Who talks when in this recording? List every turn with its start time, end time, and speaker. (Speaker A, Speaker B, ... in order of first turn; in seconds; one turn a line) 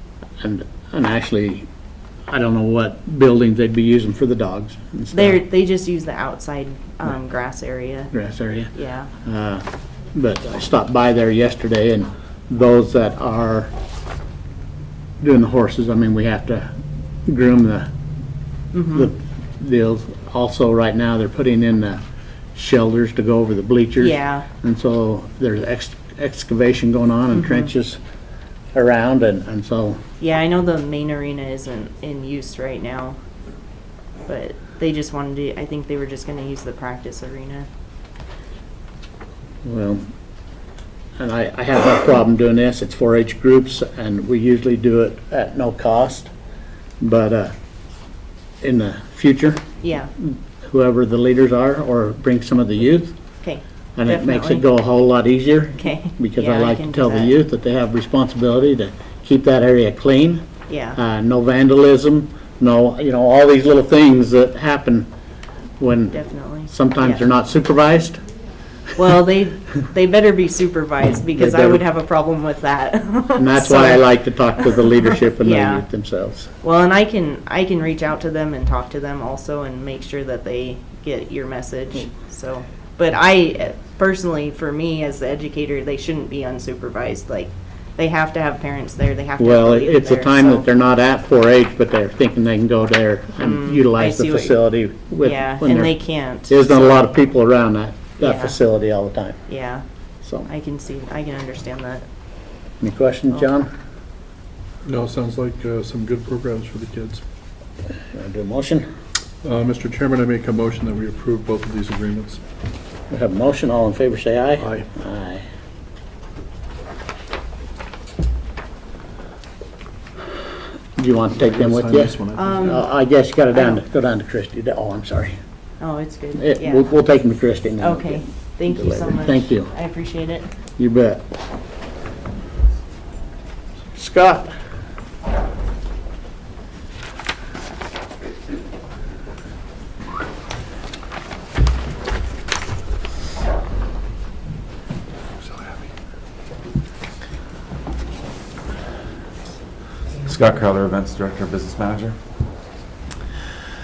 Speaker A: 0.4-1.6
Speaker A: 2.3-5.4
Speaker B: 5.1-8.1
Speaker A: 8.1-8.7
Speaker B: 8.7-9.1
Speaker A: 9.2-13.7
Speaker A: 15.2-16.7
Speaker A: 17.3-17.9
Speaker B: 18.7-19.1
Speaker A: 18.9-22.0
Speaker A: 22.5-28.0
Speaker B: 24.0-24.5
Speaker B: 27.3-27.7
Speaker A: 28.7-30.0
Speaker B: 30.2-33.2
Speaker B: 34.3-37.7
Speaker A: 39.6-40.0
Speaker A: 41.2-46.3
Speaker A: 47.0-47.5
Speaker A: 48.6-49.6
Speaker B: 49.8-50.1
Speaker A: 50.2-53.2
Speaker B: 53.4-54.6
Speaker A: 54.0-65.1
Speaker B: 55.8-57.4
Speaker B: 60.7-61.0
Speaker A: 65.8-68.2
Speaker B: 66.1-67.2
Speaker B: 69.0-75.8
Speaker A: 71.3-71.8
Speaker A: 73.4-76.5
Speaker B: 76.6-90.7
Speaker A: 89.4-96.0
Speaker B: 93.4-94.6
Speaker B: 95.2-97.0
Speaker A: 96.5-99.4
Speaker B: 98.2-98.6
Speaker B: 99.5-99.8
Speaker A: 100.2-100.5
Speaker B: 100.5-102.0
Speaker A: 102.8-103.7
Speaker C: 104.8-107.2
Speaker A: 108.1-108.8
Speaker C: 109.4-112.4
Speaker A: 113.1-115.4
Speaker C: 114.6-114.9
Speaker A: 121.0-125.3
Speaker C: 121.4-122.8
Speaker B: 122.3-122.8
Speaker B: 125.8-126.9
Speaker A: 126.3-129.7
Speaker B: 127.8-130.5
Speaker A: 130.8-131.2
Speaker A: 133.9-134.5
Speaker D: 150.2-152.2